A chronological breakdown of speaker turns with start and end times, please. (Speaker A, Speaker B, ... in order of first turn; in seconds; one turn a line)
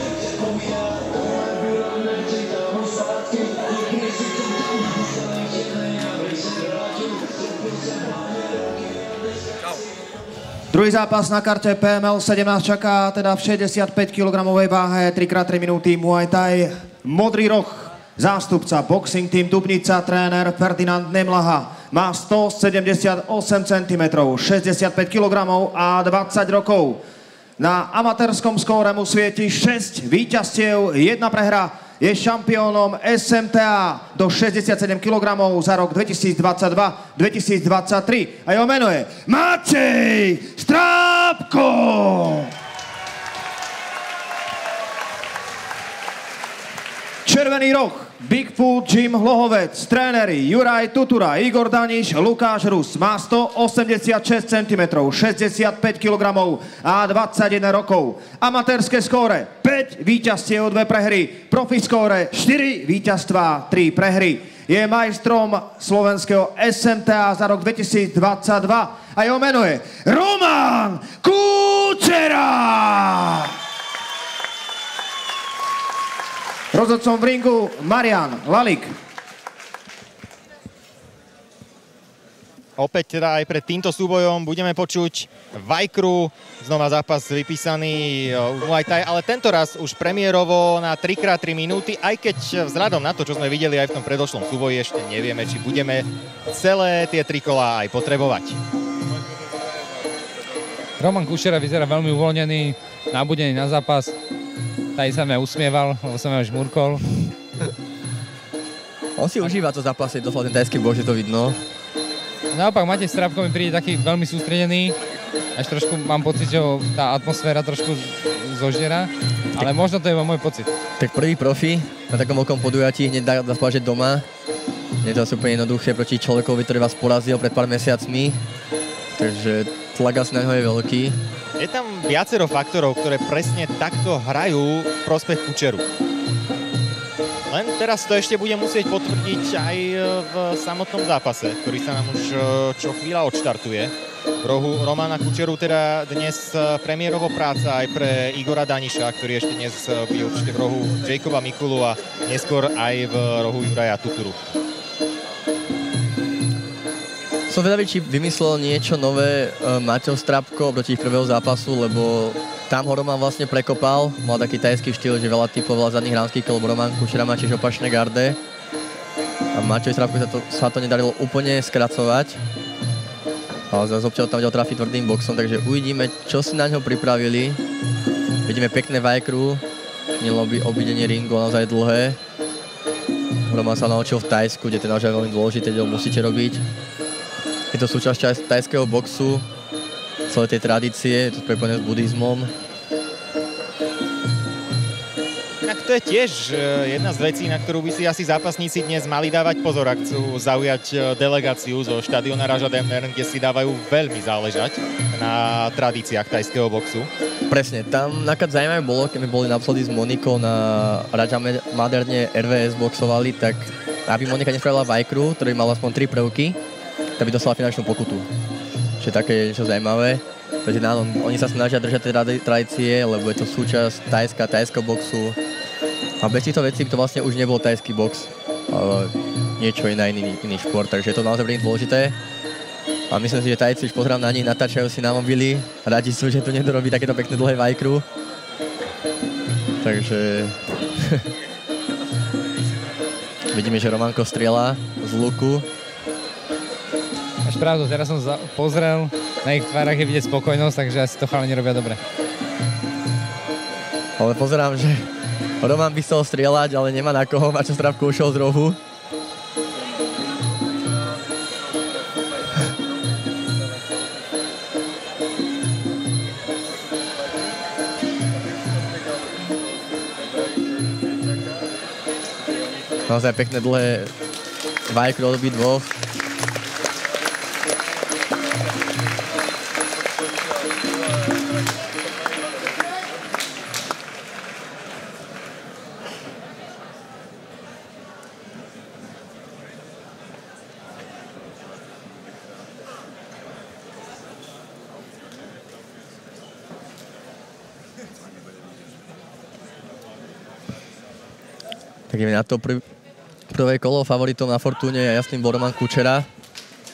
Speaker A: 10.7-27.0
Speaker A: 27.6-42.5
Speaker A: 47.2-73.5
Speaker A: 76.7-78.9
Speaker B: 82.8-98.6
Speaker C: 101.0-104.2
Speaker C: 105.0-107.0
Speaker D: 109.2-111.6
Speaker C: 112.5-115.0
Speaker C: 115.6-120.7
Speaker D: 121.0-124.3
Speaker D: 125.0-128.4
Speaker D: 129.2-131.2
Speaker B: 131.6-135.8
Speaker B: 137.5-154.4
Speaker D: 157.5-168.4
Speaker D: 169.5-172.4
Speaker D: 173.7-177.6
Speaker D: 178.5-179.6
Speaker D: 180.2-182.2
Speaker D: 183.5-186.6
Speaker D: 187.7-189.4
Speaker D: 190.3-192.5
Speaker B: 195.6-207.1
Speaker D: 207.5-216.6
Speaker D: 217.2-218.3
Speaker D: 219.0-225.4
Speaker D: 226.2-232.2
Speaker D: 233.1-238.1
Speaker D: 239.8-241.3
Speaker D: 243.5-245.7
Speaker C: 247.4-252.0
Speaker D: 254.2-255.1
Speaker D: 255.6-258.8
Speaker D: 273.1-274.1
Speaker D: 274.9-275.9
Speaker D: 302.1-302.8
Speaker D: 303.5-306.3